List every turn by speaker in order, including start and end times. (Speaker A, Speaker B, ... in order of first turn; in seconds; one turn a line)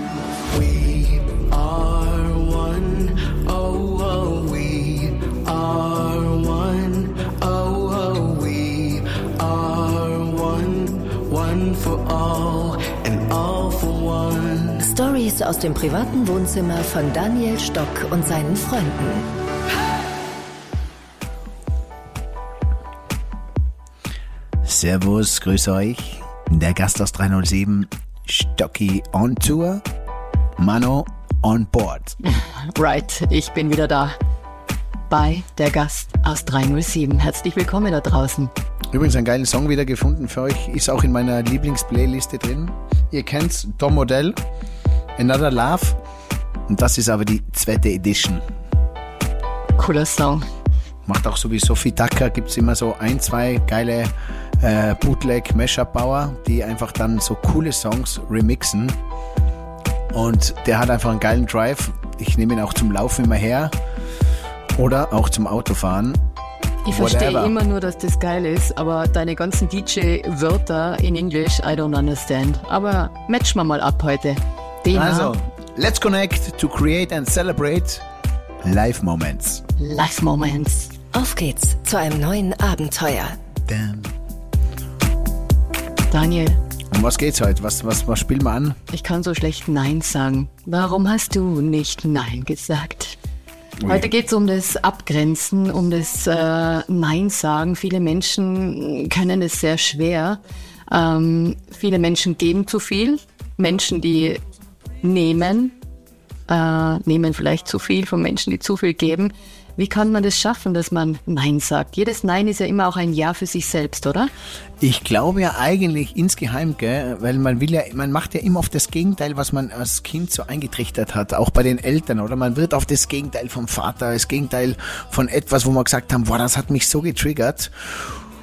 Speaker A: 0.5-14.9
Speaker B: 14.8-19.3
Speaker C: 24.6-29.8
Speaker C: 30.6-32.2
Speaker D: 32.2-34.2
Speaker D: 35.1-38.5
Speaker C: 38.9-44.4
Speaker C: 45.2-46.0
Speaker C: 46.7-48.4
Speaker D: 49.8-50.5
Speaker C: 51.1-59.0
Speaker C: 60.1-63.8
Speaker C: 64.8-66.2
Speaker D: 66.8-75.3
Speaker C: 66.9-67.6
Speaker C: 74.9-78.0
Speaker C: 78.6-79.6
Speaker D: 79.8-81.0
Speaker B: 81.1-83.4
Speaker C: 83.6-84.1
Speaker D: 86.1-86.6
Speaker C: 86.9-88.8
Speaker D: 88.9-93.2
Speaker C: 93.8-94.1
Speaker D: 93.8-104.4
Speaker D: 105.0-105.8
Speaker D: 106.5-114.3
Speaker C: 114.8-127.7